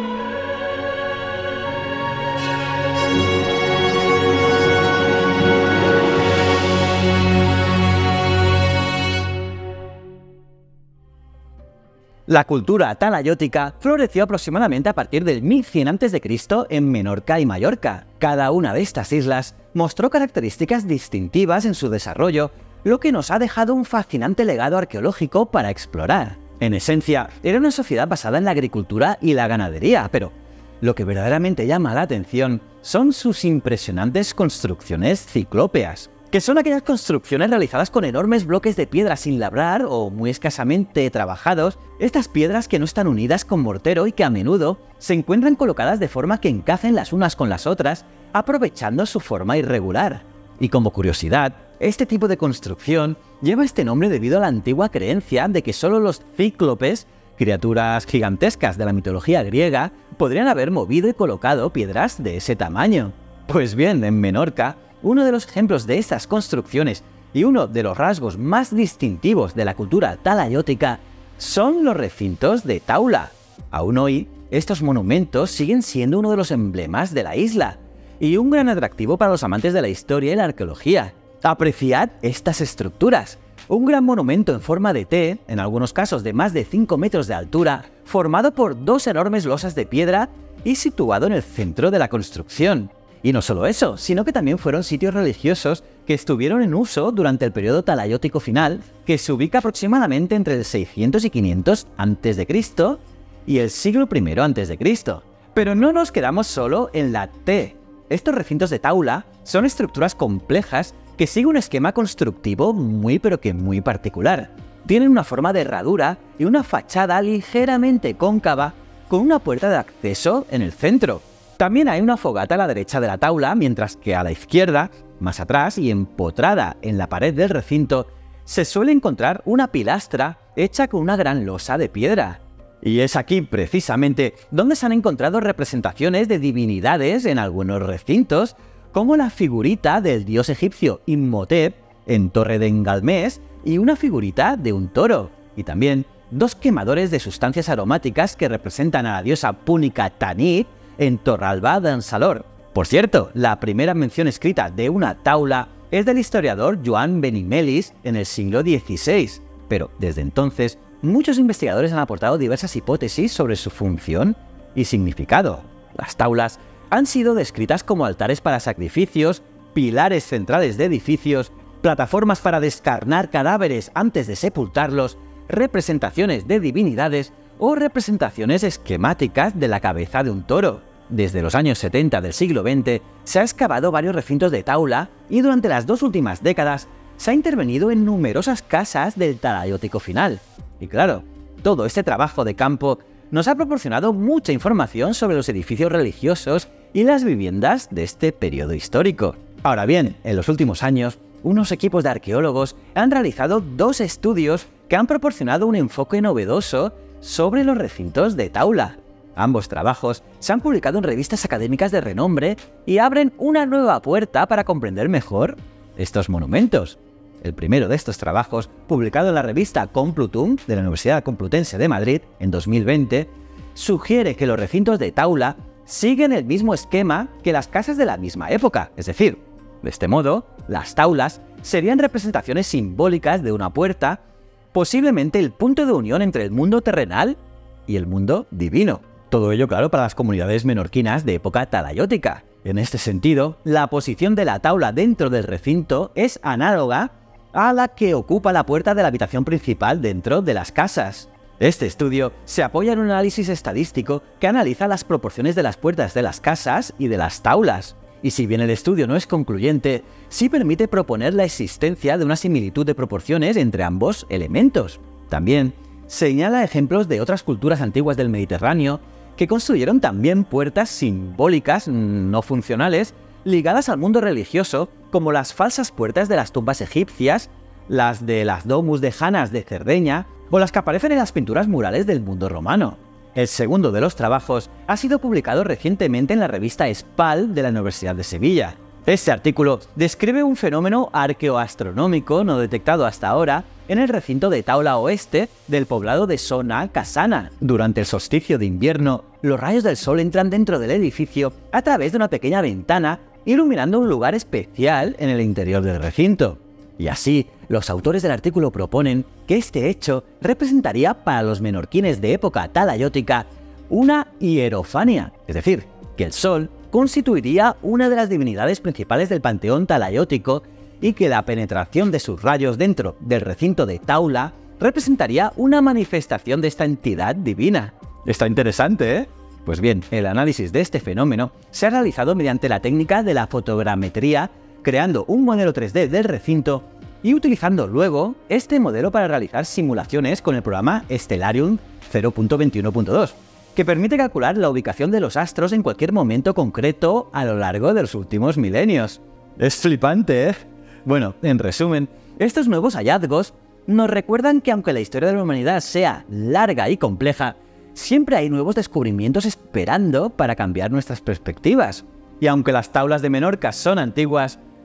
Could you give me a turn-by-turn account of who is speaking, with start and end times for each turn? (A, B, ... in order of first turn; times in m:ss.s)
0:12.3-3:54.2 A
3:54.7-6:04.6 A